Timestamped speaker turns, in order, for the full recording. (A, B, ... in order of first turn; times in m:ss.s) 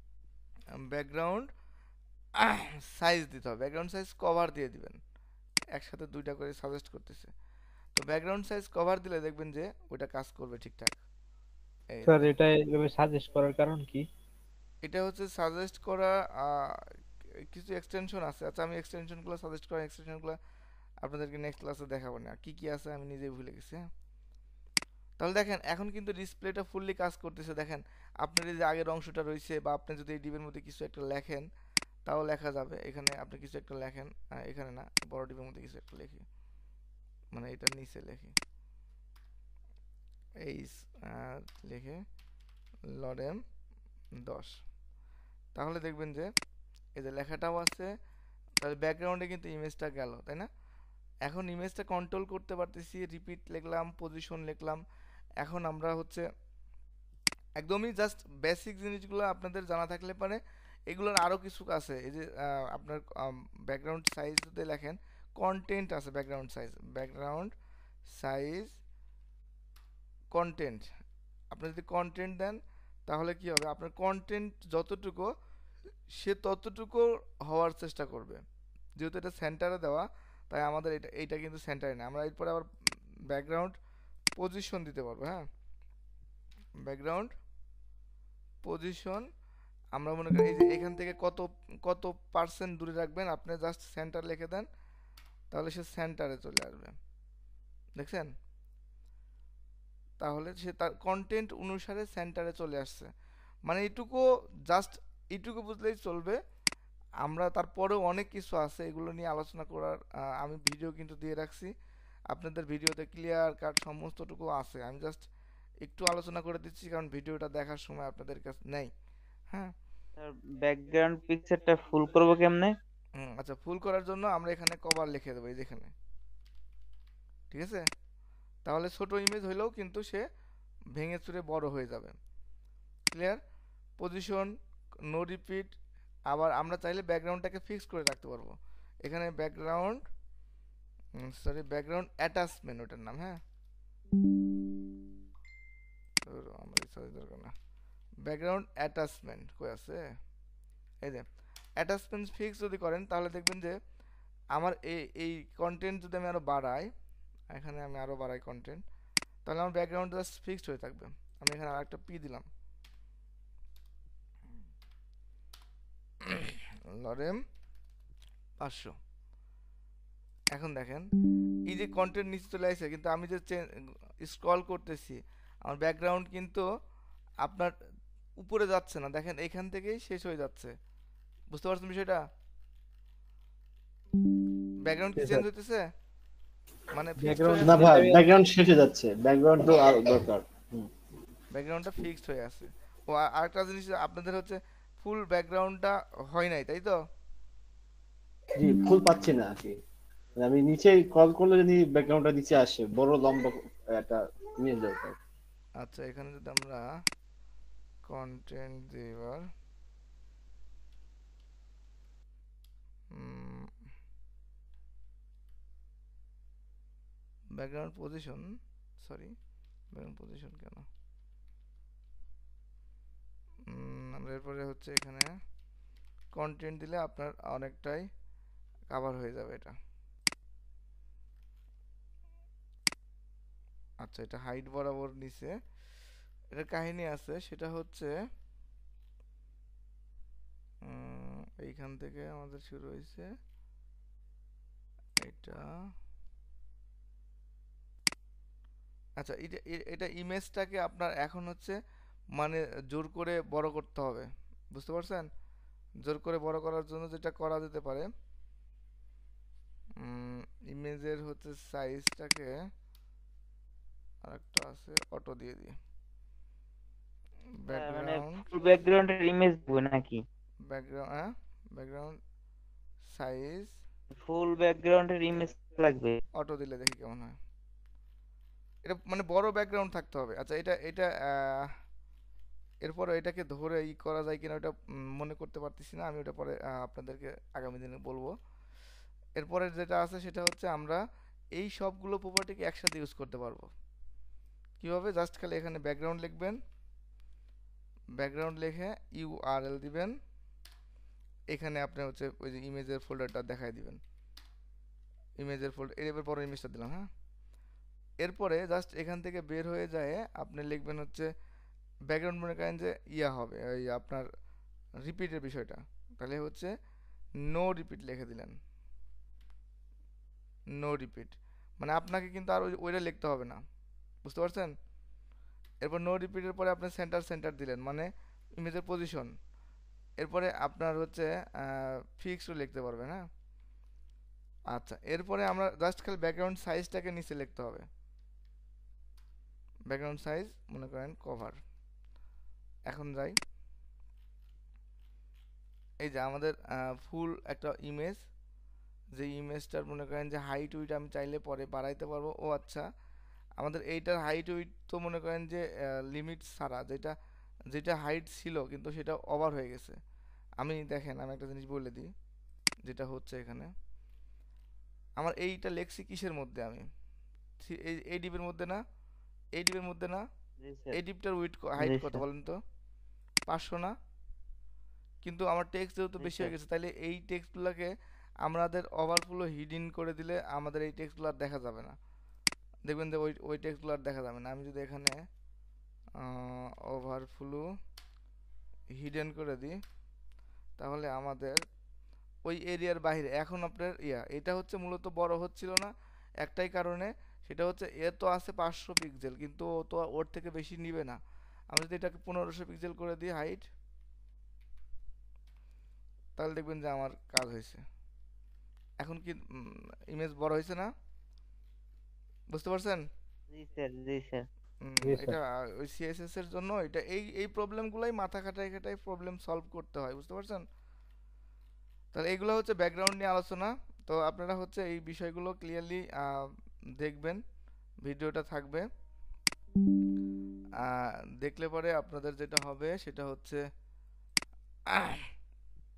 0:00.9-0:01.5 A
0:02.4-0:05.0 A
0:05.7-0:07.3 A
0:08.0-0:11.0 A
0:11.9-0:12.3 A
0:12.0-0:14.0 B
0:14.8-0:16.9 A
0:17.5-0:20.4 A
0:21.0-0:23.9 A
0:25.2-0:31.5 A
0:32.1-0:36.2 A
0:37.3-0:38.4 A
0:40.4-0:42.0 A
0:43.0-0:43.4 A
0:44.2-0:44.6 A
0:45.6-0:46.3 A
0:47.0-0:47.9 A
0:48.6-0:50.5 A
0:51.2-0:54.8 A
0:55.4-0:56.3 A
0:57.6-1:00.4 A
1:00.9-1:07.5 A
1:08.1-1:08.8 A
1:10.3-1:10.9 A
1:11.5-1:15.3 A
1:16.2-1:18.4 A
1:19.0-1:22.7 A
1:23.3-1:23.7 A
1:24.4-1:25.5 A
1:26.8-1:27.3 A
1:28.6-1:29.3 A
1:30.0-1:34.7 A
1:35.5-1:37.0 A
1:38.0-1:38.3 A
1:40.2-1:43.1 A
1:43.7-1:46.4 A
1:47.2-1:51.7 A
1:52.3-1:55.3 A
1:55.8-1:58.9 A
2:00.2-2:02.7 C
2:03.2-2:05.9 A
2:07.5-2:07.8 A
2:08.7-2:10.2 A
2:11.0-2:12.2 A
2:13.1-2:13.4 A
2:14.0-2:14.5 A
2:15.1-2:15.7 A
2:16.3-2:20.0 A
2:21.2-2:23.4 A
2:26.3-2:27.5 A
2:28.2-2:30.0 A
2:31.8-2:33.8 A
2:34.6-2:36.9 A
2:37.5-2:38.8 A
2:39.5-2:42.5 A
2:46.3-2:47.4 A
2:48.6-2:49.0 A
2:50.5-2:51.1 A
2:51.7-2:53.6 A
2:54.2-2:56.7 A
2:57.4-2:57.7 A
2:58.4-3:00.8 A
3:01.5-3:02.2 A
3:04.8-3:05.9 A
3:05.2-3:05.4 B
3:06.9-3:08.0 A
3:07.2-3:08.3 B
3:07.6-3:10.9 D
3:11.5-3:17.0 A
3:18.6-3:19.8 D
3:20.4-3:25.2 D
3:25.8-3:26.8 A
3:28.1-3:29.5 A
3:33.2-3:33.7 A
3:37.6-3:38.4 A
3:39.0-3:39.4 A
3:39.9-3:40.9 A
3:43.7-3:45.3 A
3:46.3-3:48.1 A
3:48.9-3:49.8 A
3:54.0-3:55.6 A
3:56.5-3:58.1 A
4:00.9-4:03.3 A
4:05.2-4:05.6 A
4:09.2-4:11.8 A
4:12.4-4:15.3 A
4:16.0-4:18.1 A
4:20.0-4:22.5 A
4:24.3-4:25.7 A
4:27.6-4:28.4 A
4:27.7-4:30.2 C
4:30.7-4:32.2 A
4:33.1-4:33.7 A
4:34.2-4:36.2 C
4:36.4-4:37.4 A
4:38.9-4:41.7 A
4:42.8-4:48.3 A
4:49.4-4:51.0 A
4:51.6-4:53.7 A
4:54.8-4:56.6 A
4:58.2-5:00.2 A
5:01.5-5:04.0 A
5:05.4-5:07.1 A
5:08.2-5:11.3 A
5:12.1-5:14.3 A
5:15.0-5:16.7 A
5:17.5-5:18.6 A
5:20.8-5:23.6 A
5:24.2-5:24.7 A
5:25.8-5:29.3 A
5:30.2-5:33.2 A
5:34.7-5:37.9 A
5:39.9-5:41.6 A
5:42.9-5:43.4 A
5:46.0-5:48.2 A
5:49.2-5:52.9 A
5:53.6-5:57.1 A
5:57.7-6:00.0 A
6:00.6-6:02.1 A
6:02.9-6:03.7 A
6:05.2-6:06.8 A
6:07.6-6:08.8 A
6:09.6-6:10.2 A
6:10.6-6:11.0 C
6:10.9-6:12.6 A
6:11.8-6:12.2 C
6:13.5-6:13.9 A
6:15.2-6:17.9 A
6:16.2-6:16.6 C
6:18.4-6:22.0 A
6:22.9-6:25.2 A
6:26.2-6:27.6 A
6:29.0-6:29.8 A
6:30.8-6:31.6 A
6:32.5-6:35.9 A
6:36.4-6:41.2 A
6:41.7-6:43.6 A
6:46.4-6:47.8 A
6:49.0-6:50.9 A
6:52.5-6:53.0 A
6:53.5-6:54.4 C
6:54.8-7:00.6 A
6:55.0-6:55.4 B
7:02.1-7:07.4 A
7:08.0-7:08.9 A
7:10.8-7:13.6 A
7:14.9-7:15.2 A